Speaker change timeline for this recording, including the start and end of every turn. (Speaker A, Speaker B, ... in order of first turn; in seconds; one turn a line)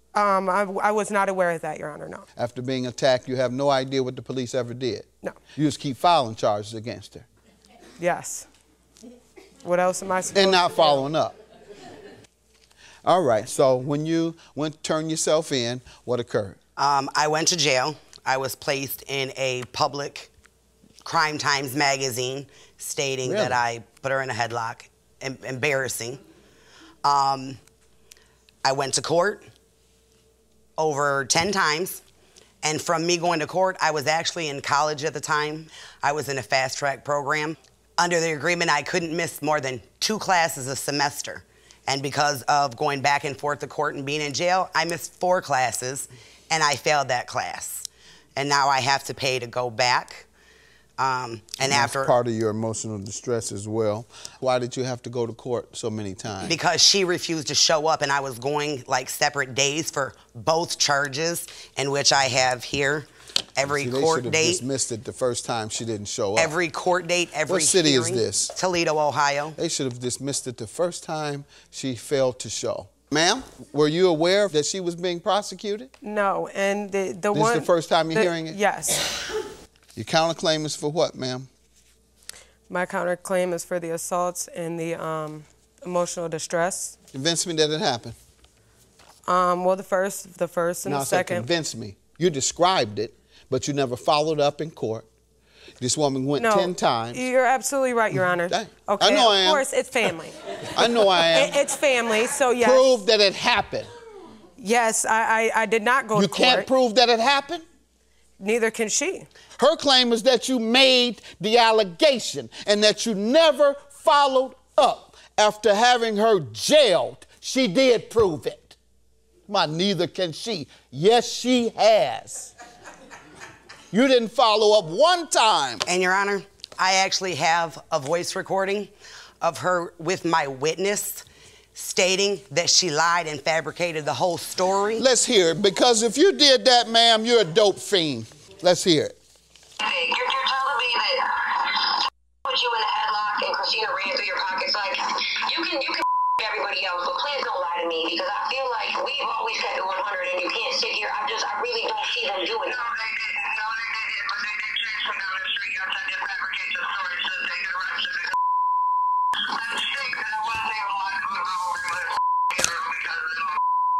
Speaker A: 0.1-2.3
Speaker B: 2.4-7.3
Speaker A: 8.0-8.5
Speaker A: 9.6-11.0
Speaker B: 10.3-11.4
Speaker B: 13.0-16.6
Speaker C: 16.8-20.3
Speaker C: 21.0-26.2
Speaker B: 23.2-23.6
Speaker C: 27.0-27.6
Speaker C: 28.6-29.5
Speaker C: 30.8-32.0
Speaker C: 32.6-50.3
Speaker C: 51.0-52.1
Speaker B: 51.6-56.6
Speaker C: 56.4-64.6
Speaker B: 63.7-66.5
Speaker C: 66.3-69.6
Speaker B: 67.5-68.5
Speaker B: 69.5-75.9
Speaker A: 76.0-79.0
Speaker B: 77.3-78.6
Speaker B: 80.0-81.5
Speaker A: 82.7-86.9
Speaker B: 87.1-88.2
Speaker A: 89.2-91.5
Speaker B: 90.8-95.1
Speaker B: 95.8-97.2
Speaker A: 96.3-100.4
Speaker B: 98.3-99.7
Speaker B: 100.7-101.6
Speaker A: 101.1-102.8
Speaker B: 102.6-103.9
Speaker A: 104.6-106.7
Speaker B: 106.1-107.6
Speaker A: 108.4-109.3
Speaker B: 109.6-118.8
Speaker B: 119.5-122.5
Speaker B: 123.9-125.8
Speaker C: 125.8-128.9
Speaker C: 129.4-135.0
Speaker B: 135.0-139.1
Speaker D: 139.8-158.3
Speaker D: 159.4-163.6